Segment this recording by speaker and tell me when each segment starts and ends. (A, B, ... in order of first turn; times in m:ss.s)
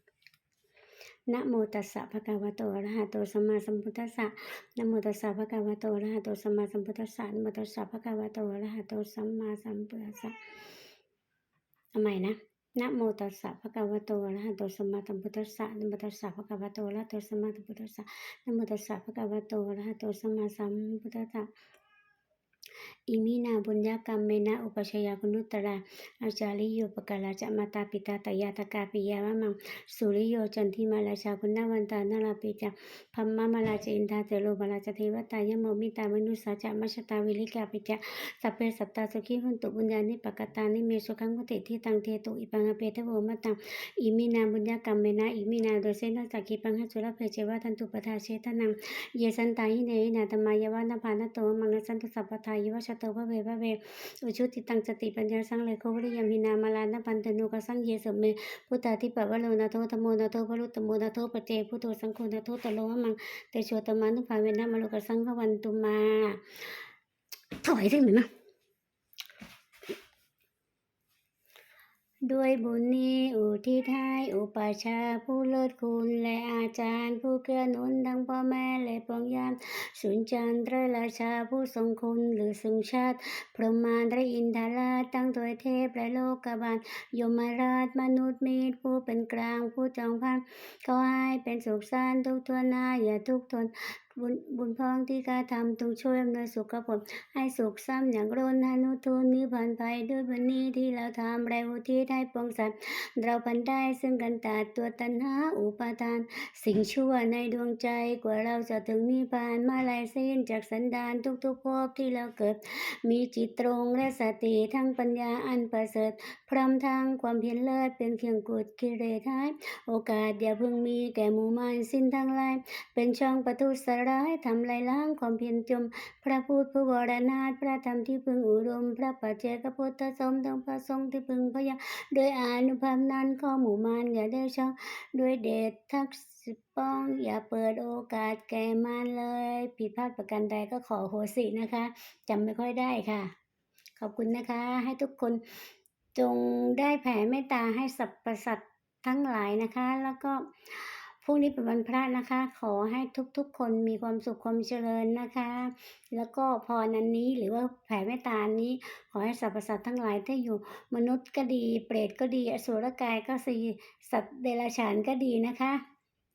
0:01.3-0:10.4 A
0:12.0-0:21.5 A
0:23.1-1:06.8 A
1:07.6-1:08.3 A
1:12.3-2:23.3 A
2:24.0-2:25.6 A
2:26.2-2:45.8 A